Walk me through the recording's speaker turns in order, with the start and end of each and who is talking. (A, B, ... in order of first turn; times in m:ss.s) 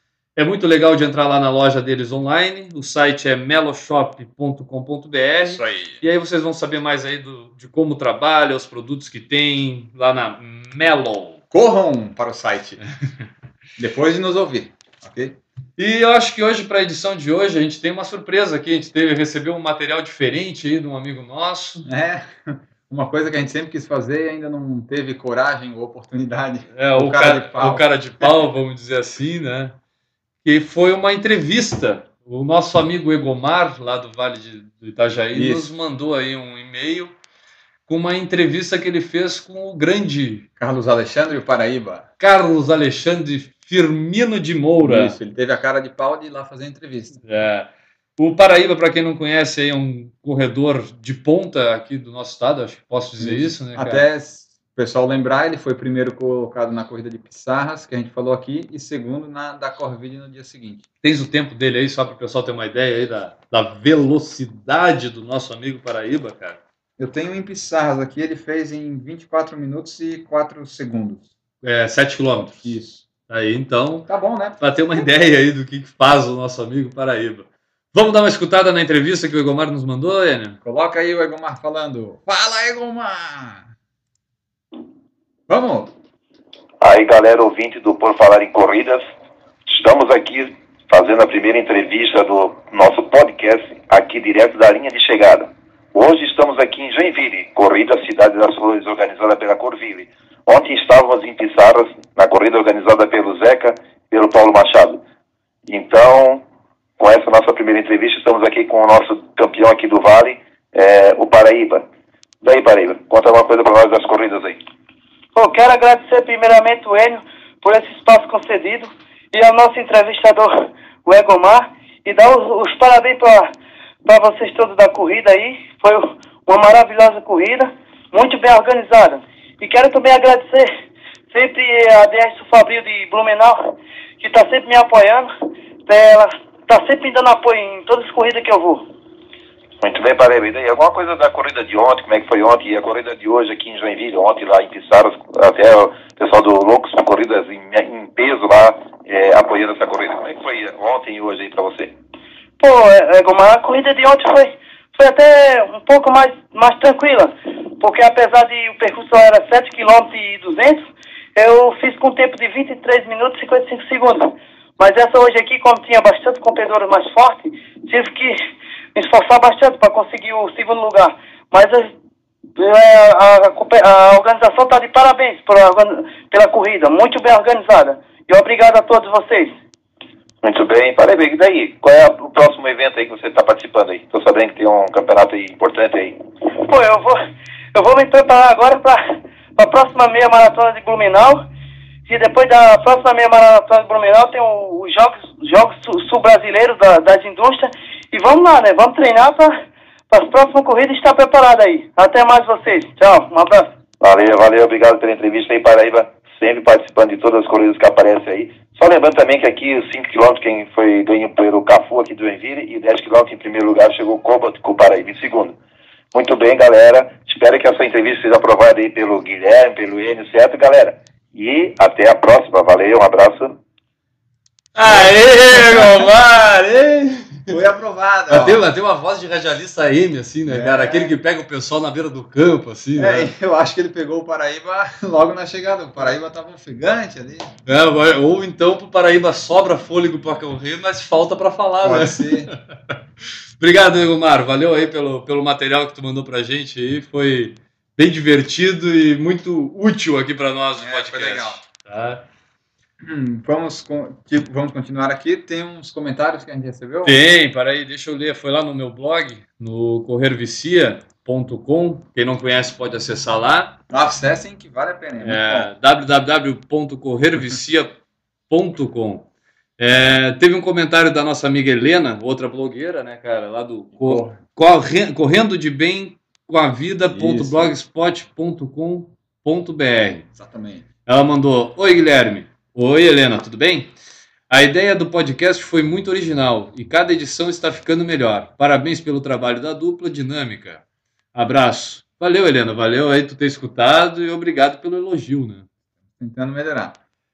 0:00.4-0:11.4 A
0:05.4-0:06.0 B
0:11.5-0:12.8 B
0:13.8-0:15.4 B
0:15.8-0:21.9 A
0:21.8-0:28.3 B
0:26.7-0:29.8 A
0:30.4-0:37.1 A
0:35.3-0:35.7 B
0:37.9-0:40.5 A
0:40.6-0:42.1 B
0:42.2-0:45.2 A
0:44.8-0:47.2 B
0:47.2-0:54.0 A
0:53.2-1:00.8 B
1:01.0-1:06.6 A
1:07.0-1:11.3 B
1:11.6-1:14.1 A
1:12.6-1:13.0 B
1:14.1-1:14.6 B
1:14.6-1:20.6 A
1:20.6-1:23.7 B
1:25.5-1:25.9 B
1:26.8-1:29.0 C
1:29.6-1:45.0 C
1:45.7-1:46.4 C
1:47.0-1:51.8 C
1:52.4-1:54.6 C
1:55.3-2:03.5 D
2:04.0-2:10.7 D
2:11.3-2:15.3 D
2:15.8-2:18.8 D
2:19.8-2:31.9 C
2:32.6-2:40.8 D
2:41.4-2:48.4 D
2:48.9-2:51.9 D
2:52.6-2:59.5 D
3:00.4-3:06.2 C
3:06.6-3:07.2 D
3:07.7-3:11.4 D
3:12.1-3:19.6 D
3:20.1-3:23.7 D
3:24.0-3:35.6 C
3:36.1-3:43.6 C
3:44.7-3:47.6 A
3:44.8-3:46.0 B
3:47.5-3:48.6 B
3:48.3-3:53.3 A
3:50.5-3:51.2 B
3:53.0-3:57.5 B
3:57.6-4:02.5 A
4:01.8-4:02.5 B
4:03.6-4:12.2 A
4:10.8-4:11.6 B
4:13.0-4:17.2 B
4:17.0-4:23.8 A
4:23.9-4:25.7 B
4:25.2-4:28.0 A
4:28.5-4:29.3 A
4:29.8-4:40.3 A
4:34.0-4:34.4 B
4:37.0-4:37.7 B
4:40.3-4:40.8 B
4:41.0-4:43.9 A
4:44.5-4:50.8 A
4:51.3-4:55.6 A
4:56.2-4:57.0 B